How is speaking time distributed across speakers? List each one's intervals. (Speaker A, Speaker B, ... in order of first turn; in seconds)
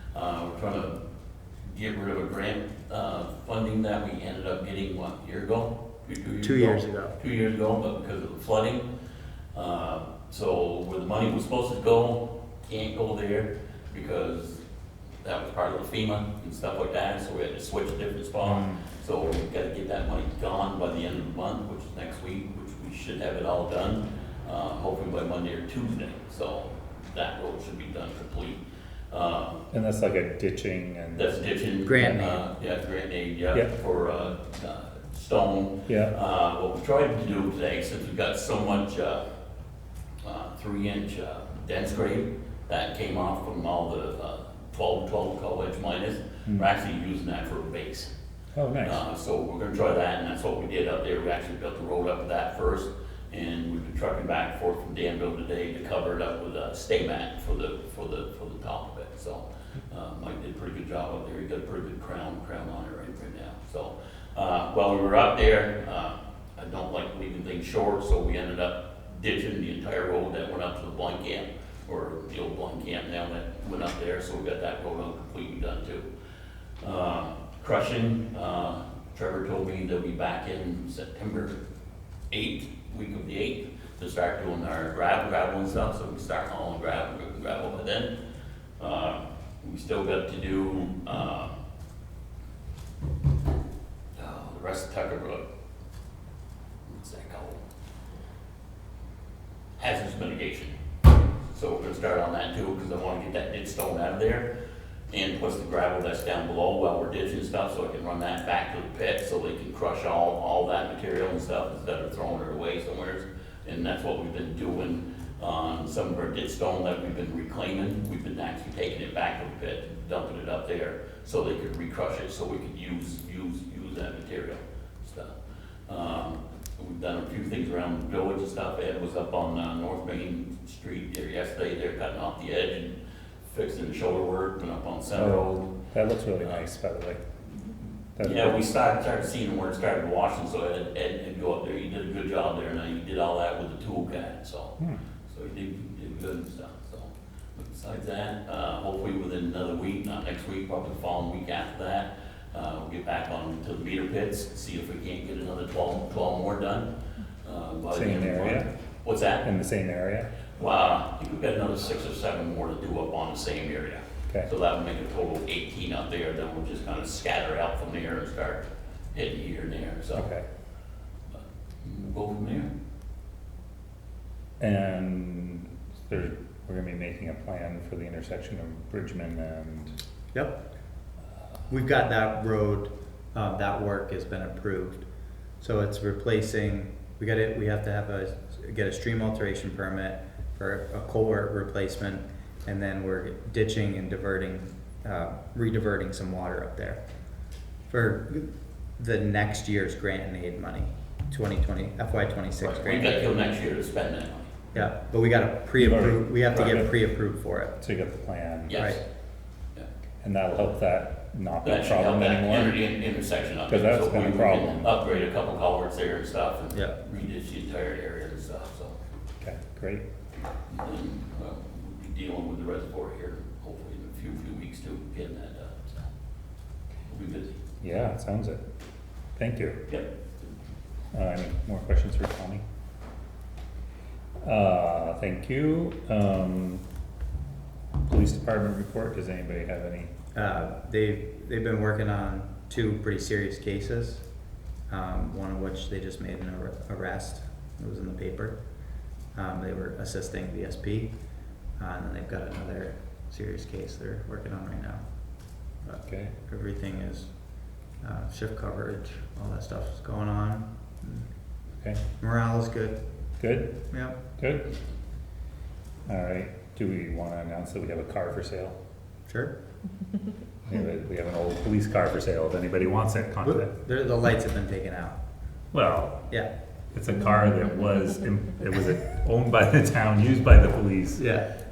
Speaker A: 0.1-1.0, 1.6-8.8, 9.5-14.6, 15.2-28.6, 29.1-29.6, 31.1-39.2, 40.2-48.1, 48.8-76.1, 76.8-81.6, 82.3-88.2, 88.8-91.6, 94.2-95.5, 96.9-97.6, 99.8-100.7, 101.5-104.5, 105.1-125.3, 125.9-135.7, 138.2-156.9, 157.4-159.5, 160.6-170.3, 171.3-172.7, 202.6-204.5, 208.7-209.0, 211.6-219.0, 220.7-226.1, 227.1-227.5
Speaker B: 6.4-7.2, 31.9-32.4, 180.3-180.6, 181.7-185.1, 185.6-197.0, 197.9-203.3, 204.7-207.8, 208.8-209.0, 240.3-244.2, 244.9-248.6, 249.3-251.1, 251.8-255.0, 255.9-257.3, 258.0-261.3, 262.2-263.0, 263.9-264.2, 269.3-269.5, 273.4-275.2, 281.2-281.5
Speaker C: 18.5-18.8, 29.7-31.3, 35.9-36.1, 48.5-49.0, 135.1-137.2, 138.2-138.6, 157.9-158.7, 159.4-160.3, 170.2-170.4, 174.6-180.0, 205.8-206.9, 207.8-208.8, 210.2-212.8, 213.7-214.9, 219.4-220.0, 227.8-228.6, 229.4-229.8, 231.1-232.6, 234.4-236.8, 238.1-240.1, 256.0-256.3, 263.4-263.8, 264.4-264.7, 266.1-268.8, 270.7-273.7, 275.7-276.2, 276.9-281.3